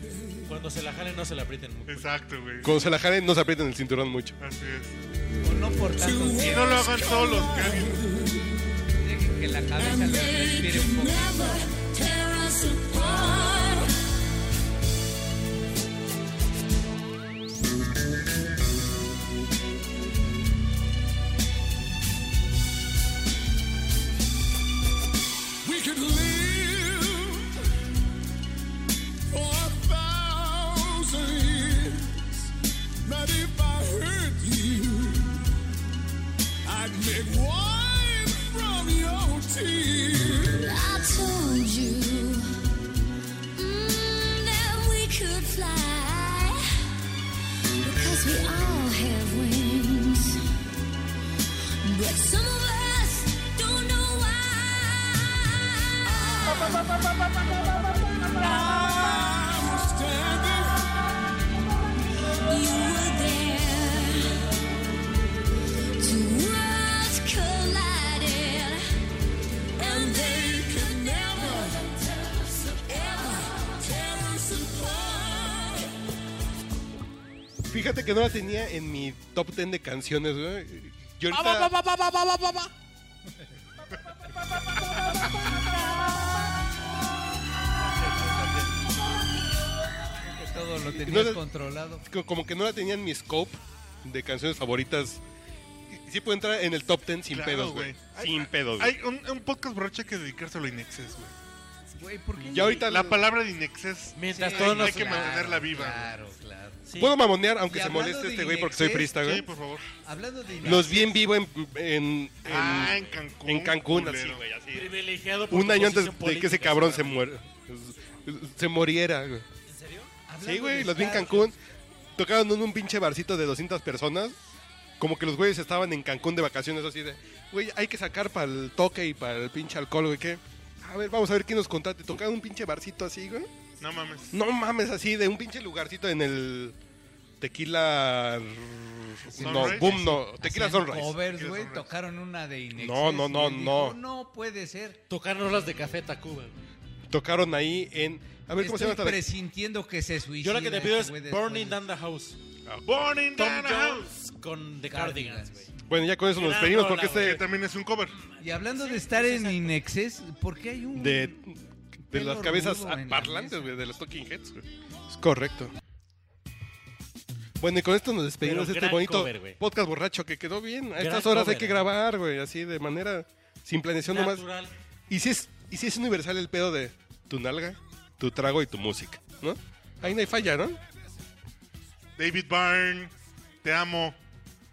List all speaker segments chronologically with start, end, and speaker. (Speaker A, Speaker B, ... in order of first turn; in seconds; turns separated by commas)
Speaker A: 0.5-2.1, Speaker B: 1.9-2.8, Speaker C: 2.6-4.4, Speaker B: 4.4-5.0, Speaker D: 5.4-6.9, Speaker E: 5.9-8.6, Speaker B: 6.4-8.1, Speaker D: 8.9-11.4, Speaker E: 9.8-13.9, Speaker F: 11.2-13.6, Speaker E: 25.6-27.6, Speaker E: 29.3-32.5, Speaker E: 33.0-35.5, Speaker E: 36.6-40.7, Speaker F: 40.6-42.5, Speaker F: 43.6-46.6, Speaker F: 47.8-50.4, Speaker F: 51.8-56.5, Speaker E: 56.1-56.9, Speaker E: 58.4-60.9, Speaker F: 62.4-64.4, Speaker F: 66.0-68.8, Speaker E: 69.8-71.9, Speaker F: 69.8-70.5, Speaker F: 71.2-74.0, Speaker E: 72.7-75.9, Speaker C: 77.7-81.7, Speaker E: 81.3-82.7, Speaker D: 90.3-92.0, Speaker C: 90.9-91.4, Speaker C: 92.0-95.2, Speaker C: 95.9-98.9, Speaker B: 97.3-101.3, Speaker D: 102.0-102.9, Speaker C: 102.4-103.3, Speaker B: 102.6-106.1, Speaker A: 104.2-105.7, Speaker D: 104.3-106.8, Speaker A: 106.9-107.2, Speaker C: 107.0-109.5, Speaker D: 107.7-109.3, Speaker B: 109.1-109.9, Speaker D: 110.0-111.2, Speaker C: 110.6-114.9, Speaker B: 112.4-114.4, Speaker A: 114.7-117.3, Speaker C: 115.5-119.5, Speaker A: 119.7-120.1, Speaker D: 120.3-121.5, Speaker C: 120.4-121.5, Speaker C: 122.2-124.4, Speaker C: 125.0-133.5, Speaker B: 133.8-134.4, Speaker C: 134.3-136.8, Speaker C: 137.4-141.2, Speaker B: 139.3-139.9, Speaker D: 139.4-145.0, Speaker B: 141.2-141.9, Speaker C: 142.8-144.0, Speaker A: 145.1-146.6, Speaker C: 147.1-149.2, Speaker D: 148.6-151.8, Speaker A: 150.4-152.4, Speaker B: 152.9-154.1, Speaker A: 153.3-155.7, Speaker D: 154.9-155.7, Speaker C: 155.9-157.4, Speaker A: 156.4-157.4, Speaker B: 157.1-158.2, Speaker D: 158.4-161.4, Speaker A: 158.5-159.8, Speaker C: 160.9-165.7, Speaker D: 162.1-163.7, Speaker C: 167.6-174.4, Speaker A: 168.4-169.6, Speaker A: 171.0-171.9, Speaker A: 174.1-174.7, Speaker C: 175.1-180.8, Speaker B: 182.2-184.2